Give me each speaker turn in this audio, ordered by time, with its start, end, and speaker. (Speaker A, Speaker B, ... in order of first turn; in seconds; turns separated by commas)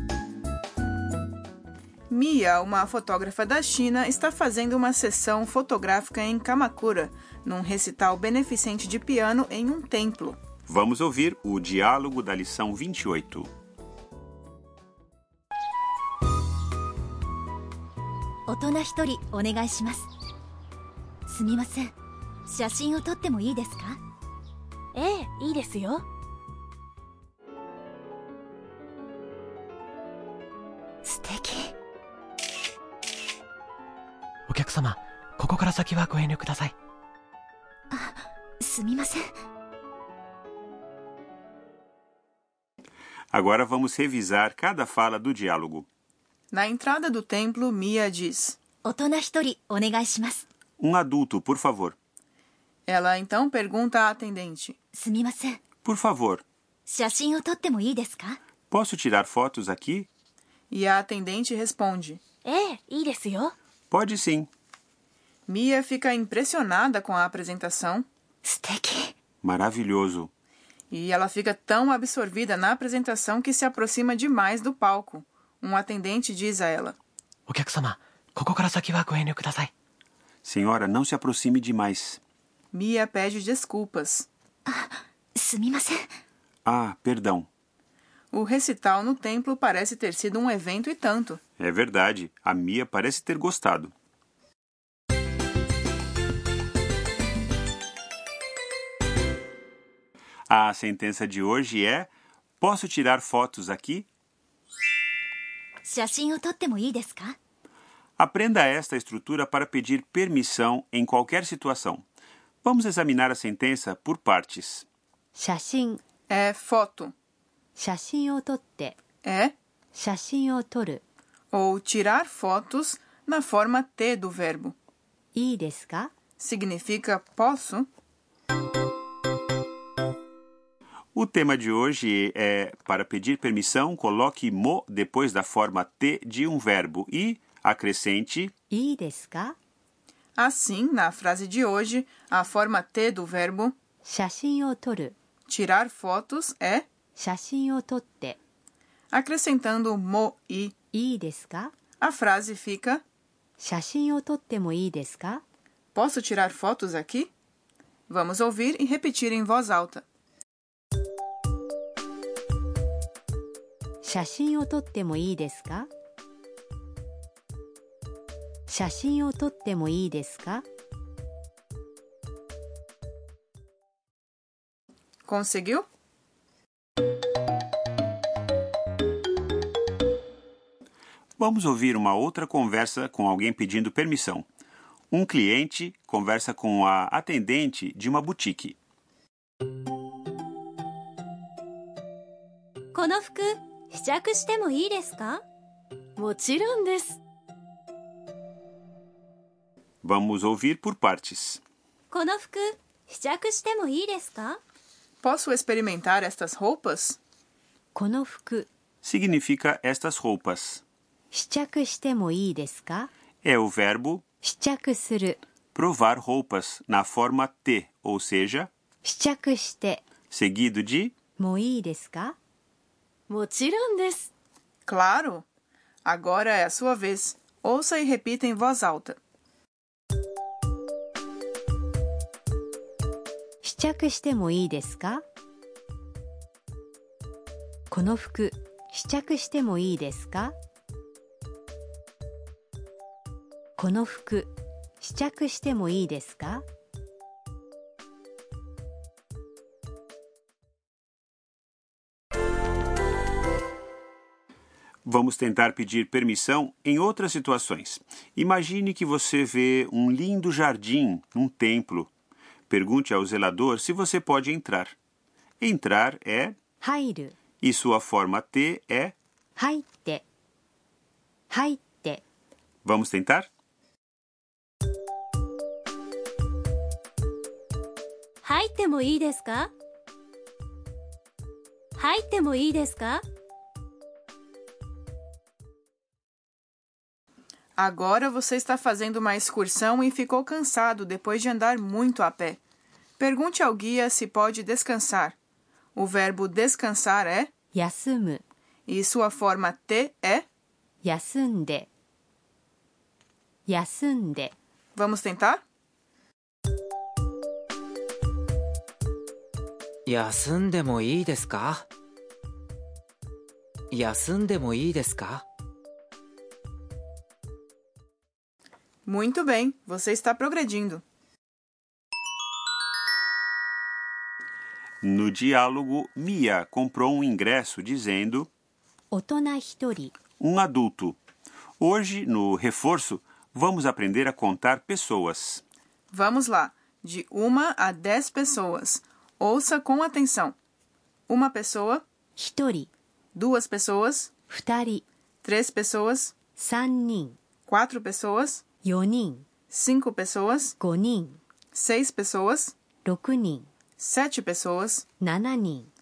Speaker A: 2.1-10.4, Speaker B: 10.7-13.5, Speaker C: 18.5-20.1, Speaker C: 21.3-21.9, Speaker C: 22.5-24.0, Speaker D: 24.9-26.0, Speaker C: 31.0-31.7, Speaker E: 34.5-36.7, Speaker C: 37.9-39.2, Speaker B: 43.3-45.9, Speaker A: 46.5-48.6, Speaker C: 48.8-50.4, Speaker B: 50.8-52.0, Speaker A: 52.9-54.8, Speaker C: 54.9-55.6, Speaker B: 55.8-56.4, Speaker C: 56.9-58.4, Speaker B: 58.7-60.1, Speaker A: 60.7-62.2, Speaker D: 62.4-63.5, Speaker B: 63.9-64.5, Speaker A: 65.5-68.0, Speaker C: 68.4-69.1, Speaker B: 69.4-70.3, Speaker A: 70.9-76.9, Speaker E: 77.5-79.7, Speaker B: 80.4-82.2, Speaker A: 82.7-84.3, Speaker C: 84.7-86.0, Speaker B: 86.6-87.5, Speaker A: 88.3-91.4, Speaker B: 91.6-93.9, Speaker B: 100.5-102.1, Speaker B: 102.6-104.1, Speaker C: 105.8-107.3, Speaker B: 108.2-112.0, Speaker B: 112.6-114.8, Speaker F: 115.3-116.0, Speaker A: 116.3-117.1, Speaker F: 117.8-119.0, Speaker A: 119.2-119.5, Speaker F: 119.9-121.0, Speaker A: 121.5-124.8, Speaker F: 125.3-126.1, Speaker A: 126.4-127.9, Speaker B: 131.1-138.5, Speaker F: 138.7-139.6, Speaker A: 140.4-143.7, Speaker F: 144.0-145.1, Speaker A: 145.5-146.8, Speaker F: 147.2-148.4, Speaker A: 149.1-150.7, Speaker F: 150.9-151.7, Speaker A: 152.0-153.0, Speaker F: 153.6-155.4, Speaker A: 155.9-157.3, Speaker A: 158.1-160.0, Speaker F: 164.0-165.9, Speaker F: 168.7-170.6, Speaker A: 175.2-175.8, Speaker B: 181.4-184.4, Speaker B: 185.1-188.8, Speaker D: 192.9-195.4, Speaker D: 196.2-197.2, Speaker B: 200.0-201.6, Speaker D: 202.1-204.6, Speaker A: 205.2-207.2, Speaker F: 207.9-208.7, Speaker B: 209.0-210.8, Speaker F: 211.3-213.1, Speaker B: 213.4-214.2, Speaker F: 214.4-215.4, Speaker B: 215.7-218.7, Speaker F: 219.0-220.0, Speaker B: 220.3-221.1, Speaker F: 221.4-222.3, Speaker D: 223.3-224.3, Speaker A: 224.9-225.4, Speaker A: 226.0-229.2, Speaker F: 233.6-235.2, Speaker F: 237.9-240.5, Speaker F: 243.8-246.6, Speaker B: 255.0-262.1, Speaker B: 262.7-264.9, Speaker B: 265.6-266.6, Speaker F: 266.8-267.3, Speaker B: 267.6-269.1, Speaker F: 269.6-270.2, Speaker F: 271.5-272.2, Speaker B: 272.8-273.5, Speaker D: 278.4-279.7, Speaker D: 282.0-283.2, Speaker A: 287.8-292.6, Speaker A: 293.2-295.3, Speaker A: 295.9-297.5, Speaker F: 297.7-298.4, Speaker A: 298.9-300.4, Speaker F: 301.0-301.9, Speaker F: 303.6-304.5, Speaker A: 304.9-305.6, Speaker G: 310.1-311.8, Speaker G: 313.9-315.4, Speaker A: 319.0-321.0, Speaker B: 325.0-328.5, Speaker F: 329.1-330.1, Speaker B: 330.4-331.2, Speaker B: 331.8-335.6, Speaker A: 336.1-340.5, Speaker A: 341.3-342.0, Speaker F: 342.4-342.9, Speaker A: 343.3-344.3, Speaker F: 344.5-345.0, Speaker A: 345.4-346.3, Speaker F: 346.6-347.4, Speaker A: 347.7-348.6, Speaker F: 348.8-349.4, Speaker A: 349.7-350.8, Speaker F: 350.8-351.4, Speaker A: 351.7-352.7, Speaker F: 353.0-353.7, Speaker A: 354.0-355.0, Speaker F: 355.2-355.9